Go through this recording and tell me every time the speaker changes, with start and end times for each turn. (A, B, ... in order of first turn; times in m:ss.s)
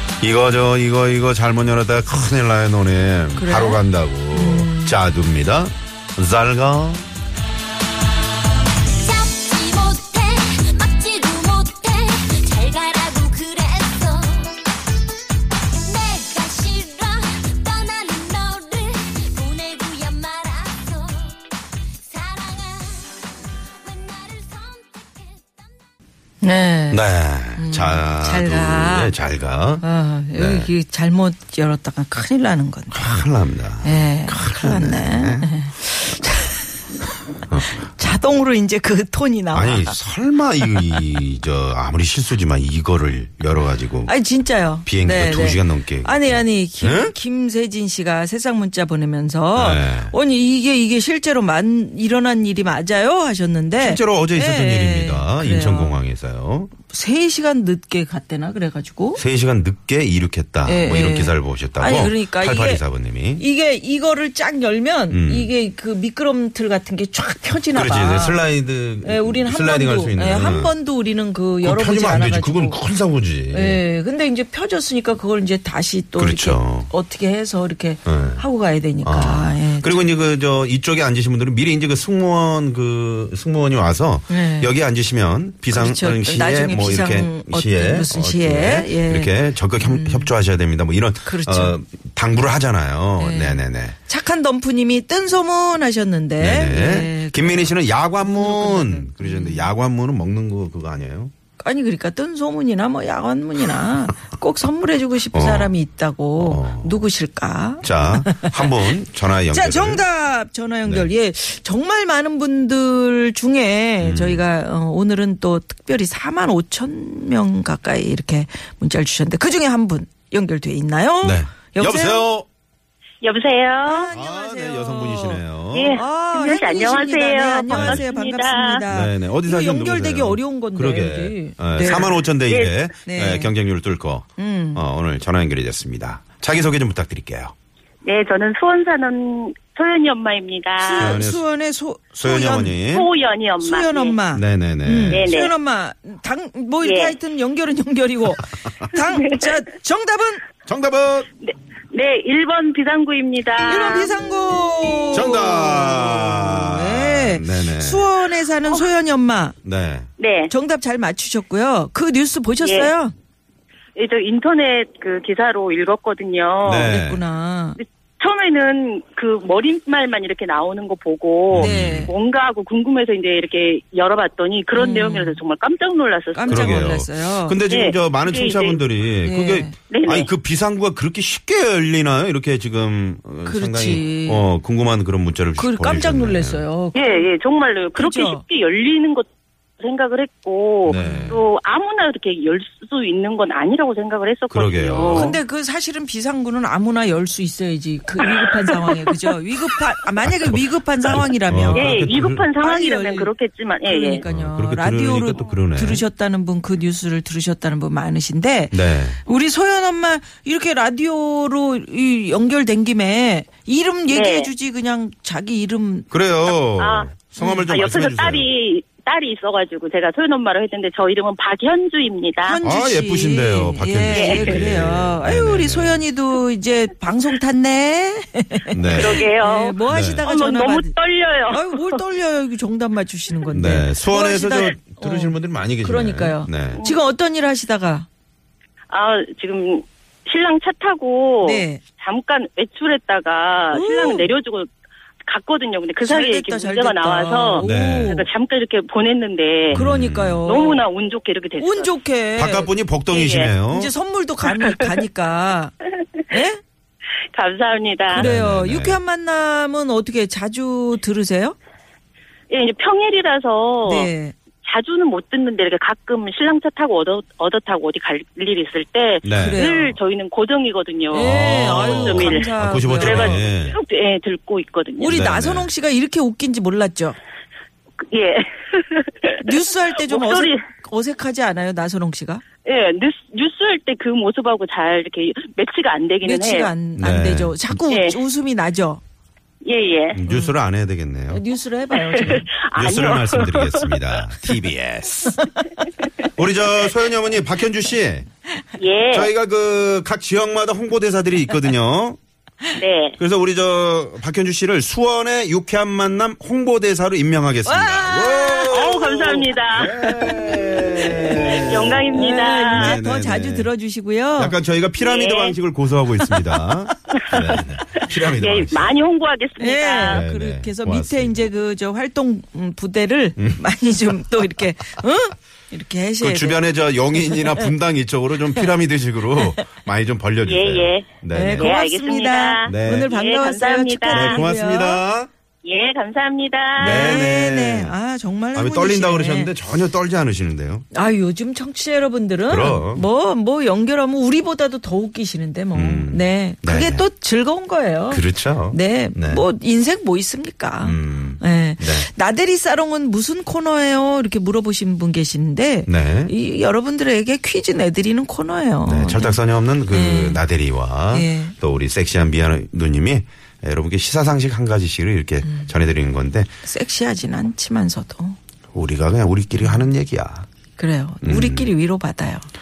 0:00.2-0:07.1 A
0:03.4-0:05.0 B
0:08.9-0:14.7 C
0:15.8-0:21.4 C
0:22.0-0:23.1 C
0:23.8-0:25.6 C
0:26.4-0:27.0 B
0:26.9-0:30.7 A
0:27.6-0:29.1 B
0:29.8-0:33.2 B
0:32.9-0:35.5 A
0:33.8-0:36.8 B
0:37.5-0:37.8 A
0:37.6-0:40.0 B
0:39.5-0:44.1 A
0:44.1-0:56.0 B
0:44.9-0:47.1 A
0:49.6-0:50.1 A
0:53.8-0:56.7 A
0:56.9-0:59.2 B
0:59.2-1:03.4 A
1:00.6-1:02.8 B
1:03.4-1:08.4 B
1:05.1-1:05.5 A
1:07.7-1:10.7 A
1:09.0-1:12.8 B
1:11.6-1:13.8 A
1:13.5-1:20.0 B
1:16.2-1:16.9 A
1:18.1-1:18.4 A
1:19.0-1:34.0 A
1:24.3-1:24.7 B
1:25.7-1:30.3 B
1:31.3-1:31.8 B
1:33.2-1:39.7 B
1:36.4-1:41.3 A
1:41.6-1:48.7 B
1:45.3-1:45.7 A
1:46.4-1:47.1 A
1:47.8-1:50.0 A
1:49.5-2:02.3 B
1:50.8-1:51.1 A
1:54.0-1:54.4 A
2:01.2-2:02.5 A
2:03.2-2:04.1 D
2:03.8-2:12.2 B
2:04.1-2:06.0 A
2:05.7-2:08.8 D
2:07.7-2:08.0 A
2:08.9-2:17.5 A
2:11.8-2:12.7 D
2:13.0-2:13.5 B
2:14.4-2:14.8 B
2:18.0-2:21.2 D
2:20.8-2:22.8 B
2:21.0-2:21.4 A
2:22.2-2:23.1 A
2:22.9-2:24.2 D
2:23.6-2:30.4 B
2:24.3-2:25.3 A
2:25.1-2:25.5 D
2:26.8-2:27.2 D
2:30.7-2:31.3 A
2:31.4-2:34.1 D
2:33.6-2:39.6 B
2:35.1-2:38.1 A
2:39.6-2:40.1 A
2:40.2-2:40.5 D
2:40.5-2:43.1 B
2:42.6-2:42.9 D
2:44.0-2:46.9 D
2:46.6-2:47.2 A
2:46.8-2:47.8 B
2:47.8-2:57.0 D
2:51.5-2:52.1 A
2:51.5-2:52.1 B
2:54.8-2:55.4 B
2:56.3-2:57.6 B
2:56.5-3:06.6 A
2:57.7-2:58.8 D
2:59.2-2:59.7 B
2:59.9-3:00.3 D
3:03.5-3:04.5 B
3:05.6-3:07.2 B
3:07.0-3:09.3 D
3:08.0-3:08.4 B
3:09.8-3:15.4 D
3:10.8-3:11.4 A
3:10.9-3:11.4 B
3:14.5-3:15.4 A
3:15.0-3:23.3 B
3:20.3-3:20.6 A
3:21.1-3:22.4 A
3:21.7-3:24.2 D
3:23.8-3:36.1 B
3:24.2-3:26.0 A
3:28.7-3:29.2 A
3:34.1-3:34.5 D
3:36.1-3:38.5 A
3:36.8-3:37.1 D
3:37.4-3:37.7 B
3:37.6-3:42.6 D
3:42.4-3:50.9 B
3:42.6-3:46.0 A
3:44.1-3:44.6 D
3:48.7-3:49.2 A
3:48.9-3:51.9 D
3:49.9-3:50.2 A
3:51.5-3:58.1 B
3:53.5-3:56.8 A
3:58.9-4:04.7 D
4:01.4-4:01.8 B
4:03.7-4:04.3 B
4:05.2-4:09.8 D
4:06.0-4:08.3 B
4:07.6-4:08.2 A
4:09.7-4:10.4 A
4:09.7-4:10.8 B
4:10.4-4:11.9 D
4:11.6-4:12.7 B
4:12.4-4:13.9 A
4:13.1-4:13.5 D
4:13.7-4:15.8 B
4:14.5-4:14.9 D
4:16.3-4:16.6 B
4:17.3-4:18.3 D
4:18.1-4:21.6 B
4:18.1-4:19.0 A
4:22.5-4:24.1 D
4:23.8-4:24.3 B
4:24.6-4:32.5 D
4:29.2-4:29.6 A
4:29.3-4:30.0 B
4:31.1-4:33.4 B
4:31.2-4:33.8 A
4:33.0-4:35.2 D
4:35.0-4:37.2 B
4:35.1-4:35.7 A
4:38.1-4:39.3 D
4:39.4-4:42.4 B
4:40.0-4:40.6 D
4:42.6-4:46.7 D
4:46.2-4:49.0 B
4:47.0-4:47.8 A
4:47.9-4:48.2 D
4:49.6-4:50.2 D
4:50.1-4:51.4 A
4:50.3-4:50.6 B
4:51.3-4:52.5 B
4:52.2-4:54.2 D
4:52.2-4:55.4 A
4:56.3-4:58.3 A
4:58.8-4:59.3 D
4:59.1-5:02.2 A
5:02.8-5:03.2 D
5:03.2-5:12.1 A
5:07.6-5:08.8 B
5:08.7-5:09.9 D
5:09.9-5:11.5 B
5:11.3-5:13.0 D
5:12.1-5:14.6 B
5:12.7-5:13.7 A
5:14.4-5:19.0 A
5:15.0-5:15.6 D
5:18.4-5:20.2 D
5:19.6-5:26.6 B
5:20.0-5:21.5 A
5:26.2-5:31.7 A
5:27.1-5:27.8 B
5:28.5-5:28.8 B
5:30.4-5:34.4 D
5:31.3-5:35.0 B
5:32.6-5:33.1 A
5:34.1-5:35.3 A
5:35.6-5:37.2 D
5:36.8-5:37.9 A
5:36.8-5:39.5 B
5:38.6-5:40.8 A
5:40.9-6:00.4 B
5:42.5-5:43.0 A
5:45.7-5:47.1 A
5:48.1-5:49.4 A
5:50.8-5:52.1 A
5:55.9-5:56.3 A
5:58.9-6:06.5 A
6:01.1-6:01.5 B
6:06.6-6:08.4 B
6:08.7-6:10.5 A
6:10.8-6:12.5 B
6:11.2-6:11.7 A